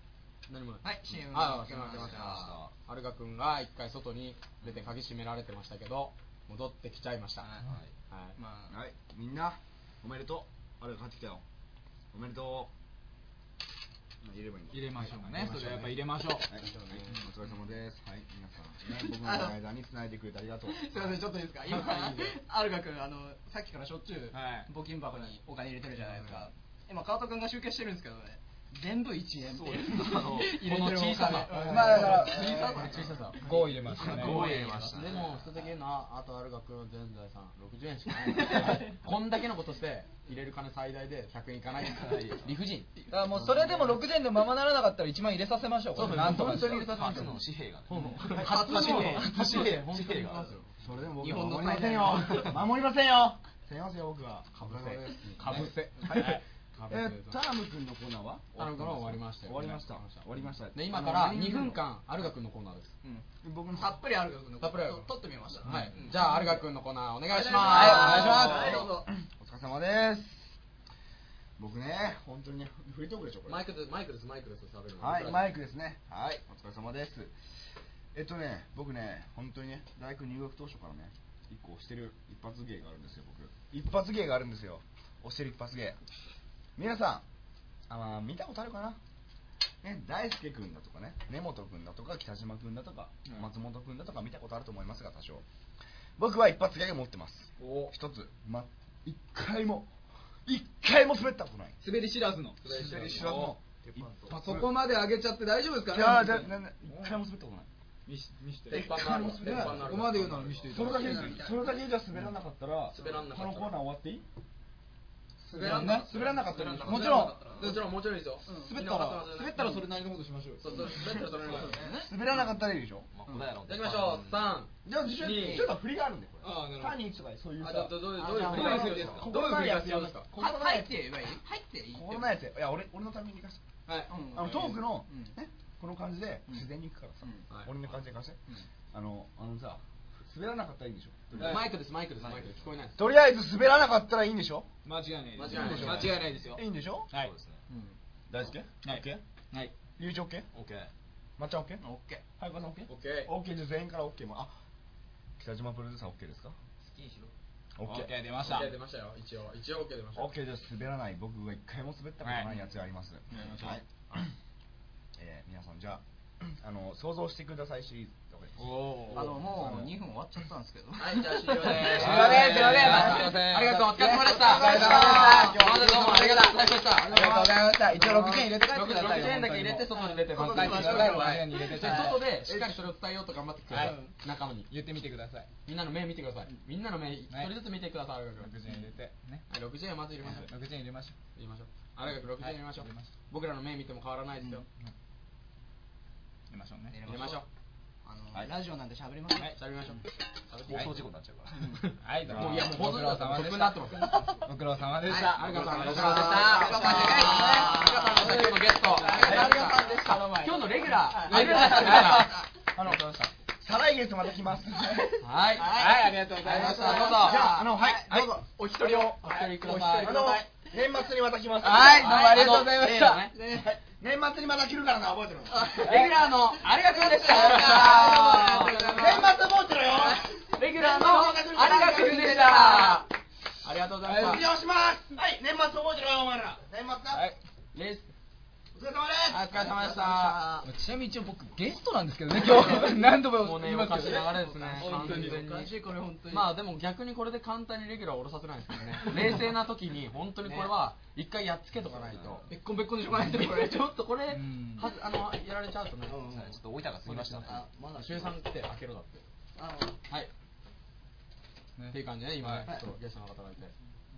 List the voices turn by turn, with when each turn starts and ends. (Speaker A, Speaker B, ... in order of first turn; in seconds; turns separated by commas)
Speaker A: 0.5-2.3, Speaker B: 0.8-2.6, Speaker C: 1.9-2.7, Speaker A: 2.8-7.5, Speaker B: 7.4-7.7, Speaker C: 7.6-7.9, Speaker A: 8.1-8.3, Speaker B: 8.4-8.7, Speaker D: 8.7-11.4, Speaker D: 12.1-12.7, Speaker D: 14.2-15.1, Speaker E: 14.7-16.5, Speaker A: 15.2-15.9, Speaker D: 16.5-21.1, Speaker A: 16.7-17.0, Speaker B: 18.9-19.6, Speaker B: 20.6-35.1, Speaker A: 21.7-22.4, Speaker E: 24.3-24.7, Speaker C: 29.4-30.6, Speaker A: 30.4-42.9, Speaker E: 31.6-32.8, Speaker E: 33.4-34.4, Speaker C: 34.0-35.3, Speaker B: 38.2-38.9, Speaker C: 42.0-42.5, Speaker E: 43.1-46.9, Speaker A: 45.9-50.7, Speaker C: 46.4-50.5, Speaker B: 48.4-49.4, Speaker D: 50.8-61.3, Speaker B: 51.2-52.6, Speaker A: 54.6-57.4, Speaker A: 58.5-62.9, Speaker B: 61.1-61.7, Speaker B: 63.0-66.1, Speaker D: 63.4-64.0, Speaker A: 64.6-68.7, Speaker B: 67.3-69.1, Speaker E: 67.7-68.7, Speaker D: 68.0-70.6, Speaker D: 71.6-73.6, Speaker A: 73.5-75.5, Speaker D: 75.0-77.3, Speaker D: 78.1-86.0, Speaker D: 86.8-87.2, Speaker D: 87.9-89.0, Speaker D: 89.8-95.4, Speaker D: 96.2-99.9, Speaker E: 97.6-97.9, Speaker D: 100.5-101.8, Speaker E: 101.8-103.5, Speaker D: 102.7-104.7, Speaker A: 102.9-103.4, Speaker C: 103.9-104.1, Speaker E: 104.3-107.2, Speaker D: 105.9-107.7, Speaker E: 108.1-111.4, Speaker D: 108.7-109.9, Speaker A: 108.7-110.8, Speaker D: 110.7-114.2, Speaker B: 110.8-111.7, Speaker A: 112.9-113.8, Speaker B: 115.5-117.6, Speaker E: 115.5-117.9, Speaker C: 116.4-117.1, Speaker D: 116.6-117.2, Speaker A: 116.8-119.9, Speaker B: 118.5-118.7, Speaker E: 118.5-121.7, Speaker A: 120.6-121.8, Speaker B: 121.5-122.1, Speaker D: 121.9-123.1, Speaker C: 123.1-124.4, Speaker A: 123.6-125.7, Speaker D: 124.8-129.3, Speaker E: 126.4-127.0, Speaker A: 127.6-130.3, Speaker B: 128.1-128.9, Speaker E: 128.3-131.0, Speaker B: 130.3-132.3, Speaker D: 131.9-133.6, Speaker A: 133.9-134.1, Speaker B: 134.1-135.3, Speaker D: 134.3-138.4, Speaker E: 134.4-134.7, Speaker D: 138.9-141.6, Speaker A: 141.4-143.0, Speaker C: 142.2-142.6, Speaker D: 142.9-144.7, Speaker E: 144.8-147.8, Speaker A: 145.3-146.1, Speaker D: 145.5-147.1, Speaker C: 145.7-146.2, Speaker C: 147.1-147.6, Speaker D: 148.3-149.2, Speaker E: 148.8-149.7, Speaker D: 150.0-150.5, Speaker C: 150.5-150.9, Speaker D: 151.4-151.8, Speaker D: 152.4-154.5, Speaker A: 152.9-153.3, Speaker D: 155.4-156.6, Speaker D: 157.8-158.1, Speaker E: 157.8-158.7, Speaker A: 158.4-160.3, Speaker D: 160.1-164.3, Speaker E: 162.2-162.5, Speaker D: 165.2-169.9, Speaker E: 168.8-169.2, Speaker B: 169.1-173.6, Speaker A: 171.0-184.7, Speaker E: 171.7-176.2, Speaker D: 174.3-176.4, Speaker B: 174.6-175.6, Speaker E: 177.0-182.3, Speaker D: 177.2-177.4, Speaker B: 179.9-182.2, Speaker B: 183.8-184.1, Speaker E: 184.7-185.5, Speaker A: 185.7-188.6, Speaker E: 188.4-189.4, Speaker A: 189.5-190.5, Speaker E: 190.3-191.1, Speaker A: 191.3-194.6, Speaker E: 192.4-193.1, Speaker E: 196.5-196.9, Speaker B: 196.9-197.4, Speaker A: 197.0-197.4, Speaker B: 198.0-199.5, Speaker A: 199.4-201.1, Speaker C: 200.6-201.5, Speaker B: 201.5-201.8, Speaker A: 201.8-204.4, Speaker E: 201.9-207.7, Speaker D: 202.2-202.8, Speaker B: 204.1-204.4, Speaker B: 205.0-212.5, Speaker A: 205.1-212.9, Speaker E: 209.0-210.1, Speaker E: 211.3-212.2, Speaker D: 212.7-215.1, Speaker B: 215.0-217.7, Speaker A: 215.2-220.4, Speaker E: 215.6-220.2, Speaker D: 217.0-218.3, Speaker B: 218.8-220.1, Speaker D: 220.0-222.3, Speaker E: 221.6-223.2, Speaker B: 221.9-223.7, Speaker A: 222.1-223.3, Speaker D: 223.2-225.8, Speaker B: 225.5-230.2, Speaker A: 225.8-229.2, Speaker E: 225.9-226.1, Speaker D: 228.9-232.2, Speaker A: 230.5-233.1, Speaker B: 230.8-233.1, Speaker A: 233.6-234.5, Speaker D: 234.0-237.2, Speaker E: 237.1-237.4, Speaker A: 237.7-238.1, Speaker D: 238.7-239.6, Speaker A: 239.3-240.5, Speaker B: 239.5-240.7, Speaker E: 240.6-245.4, Speaker A: 242.3-256.4, Speaker B: 244.3-246.6, Speaker B: 249.0-249.4, Speaker B: 250.4-250.7, Speaker B: 252.5-254.1, Speaker E: 254.3-254.9, Speaker B: 256.1-256.5, Speaker C: 256.1-257.7, Speaker A: 257.0-259.2, Speaker B: 257.5-258.1, Speaker B: 259.6-260.0, Speaker E: 261.8-262.7, Speaker A: 261.9-263.7